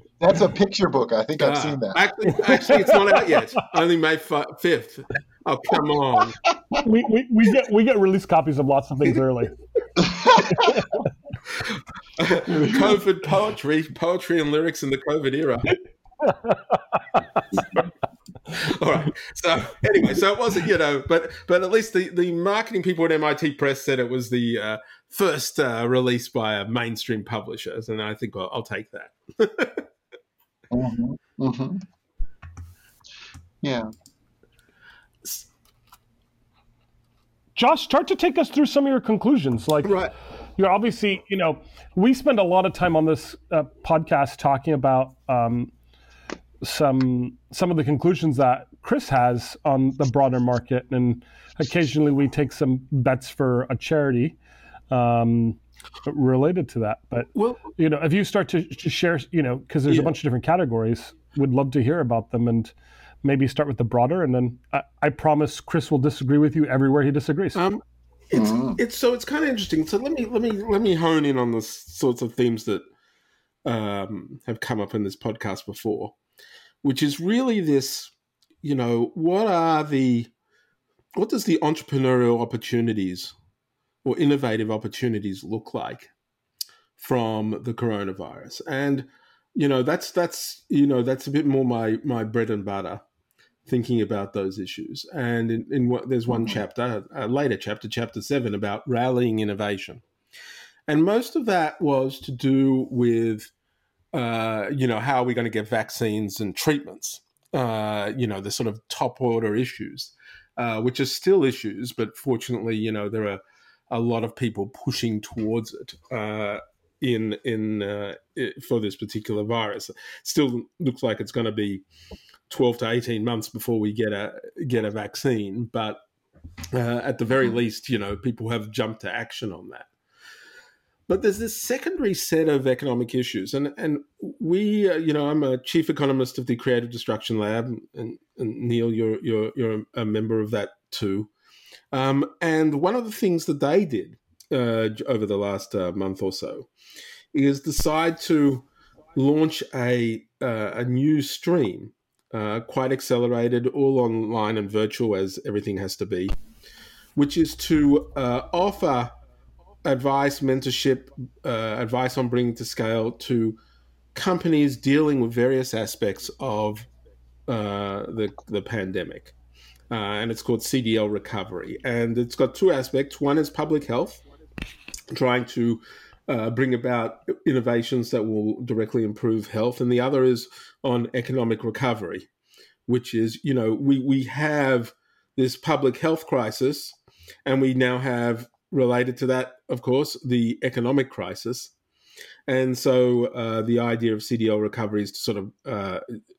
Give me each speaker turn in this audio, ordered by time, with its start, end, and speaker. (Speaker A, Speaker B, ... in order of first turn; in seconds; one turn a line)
Speaker A: 0.2-2.0
Speaker B: 1.4-6.4
Speaker C: 2.4-2.8
Speaker C: 6.8-9.5
Speaker A: 10.0-10.8
Speaker C: 10.2-11.0
Speaker B: 11.5-15.8
Speaker A: 12.4-13.0
Speaker C: 16.2-17.2
Speaker B: 17.5-17.9
Speaker B: 18.5-29.9
Speaker A: 30.7-31.8
Speaker A: 33.6-33.9
Speaker C: 37.5-40.0
Speaker B: 39.8-40.1
Speaker C: 40.6-45.7
Speaker C: 46.6-54.4
Speaker C: 54.9-67.6
Speaker B: 57.3-57.7
Speaker B: 67.5-72.8
Speaker A: 68.3-68.8
Speaker B: 73.6-76.1
Speaker B: 76.8-78.1
Speaker B: 78.6-80.3
Speaker B: 81.1-83.3
Speaker B: 84.0-86.1
Speaker B: 87.0-93.0
Speaker B: 93.7-100.0
Speaker A: 96.3-96.6
Speaker B: 100.9-103.5
Speaker B: 104.1-121.8
Speaker B: 122.5-126.0
Speaker B: 126.7-129.9
Speaker B: 131.1-141.3
Speaker B: 141.9-146.7
Speaker B: 147.3-156.3
Speaker B: 157.2-159.1
Speaker B: 159.8-163.6
Speaker B: 164.1-166.9
Speaker B: 167.5-169.3
Speaker B: 169.9-174.2
Speaker B: 175.1-182.3
Speaker B: 182.9-191.7
Speaker B: 192.5-196.0